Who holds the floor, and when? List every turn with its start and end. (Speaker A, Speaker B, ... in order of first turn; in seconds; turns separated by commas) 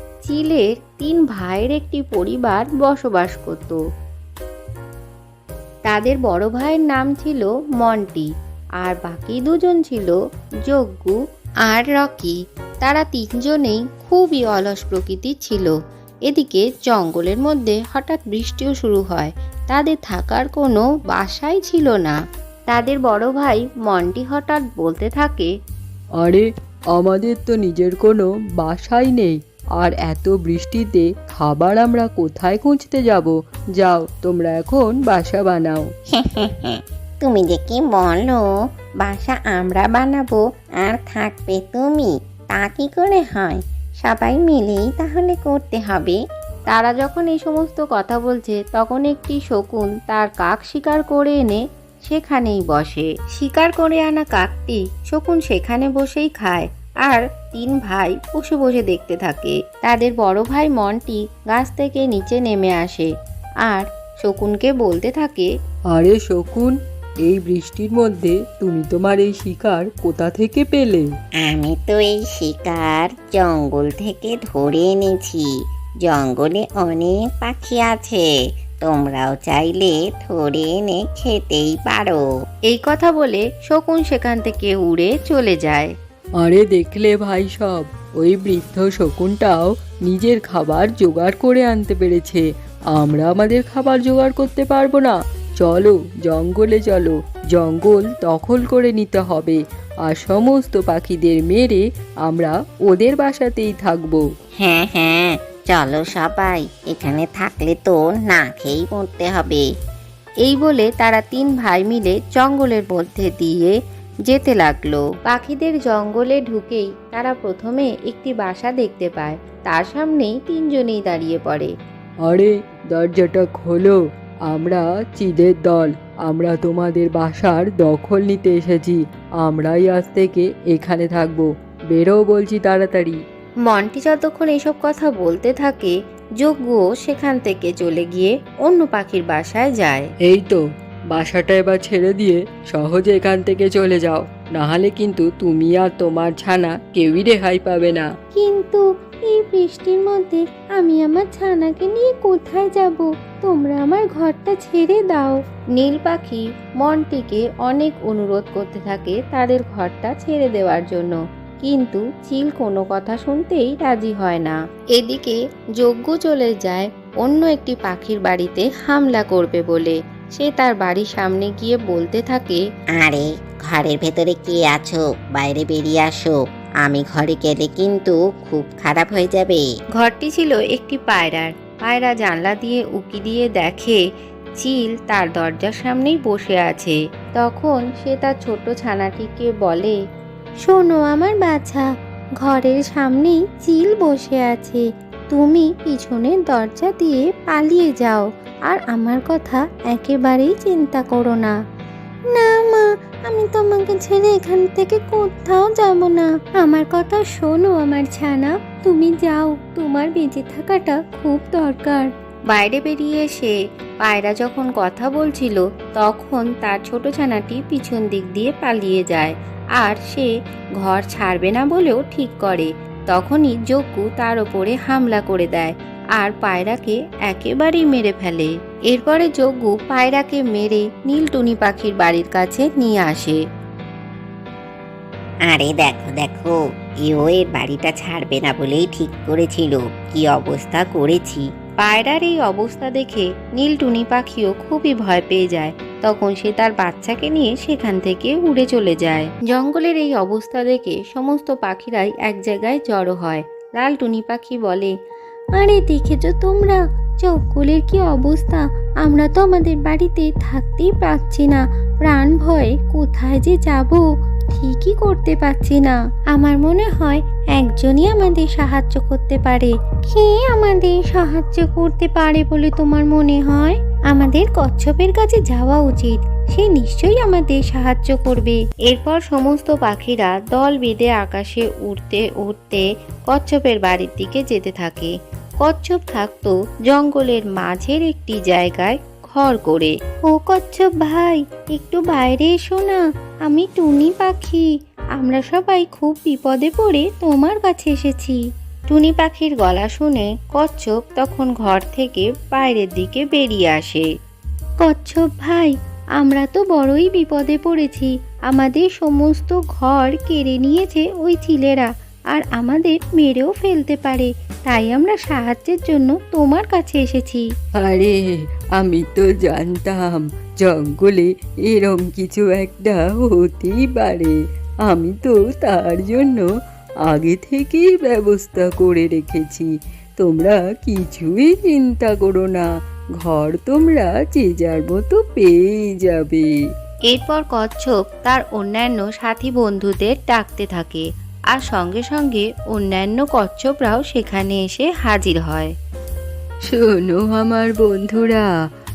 Speaker A: 0.2-3.8, Speaker A: 5.8-8.3, Speaker A: 8.8-15.7, Speaker A: 16.3-22.1, Speaker A: 22.7-25.5, Speaker B: 26.2-35.9, Speaker C: 36.1-38.5, Speaker C: 39.0-46.2, Speaker A: 46.7-63.1, Speaker A: 63.6-65.5, Speaker B: 65.9-71.1, Speaker C: 71.4-75.5, Speaker C: 76.0-82.2, Speaker A: 82.7-85.9, Speaker B: 86.4-104.2, Speaker C: 104.6-109.7, Speaker A: 110.4-113.7, Speaker A: 114.3-121.7, Speaker B: 122.2-124.0, Speaker B: 124.5-133.2, Speaker A: 133.7-140.1, Speaker B: 140.3-148.1, Speaker A: 148.3-172.6, Speaker C: 172.9-179.7, Speaker A: 180.0-184.0, Speaker A: 184.6-190.0, Speaker A: 190.6-191.8, Speaker A: 192.4-201.5, Speaker A: 202.3-233.4, Speaker C: 235.5-241.5, Speaker A: 241.8-254.9, Speaker A: 255.6-298.4, Speaker A: 298.9-304.1, Speaker A: 304.8-317.4, Speaker B: 317.8-326.5, Speaker B: 327.0-332.7, Speaker B: 333.2-336.5, Speaker A: 337.1-345.7, Speaker B: 346.7-348.5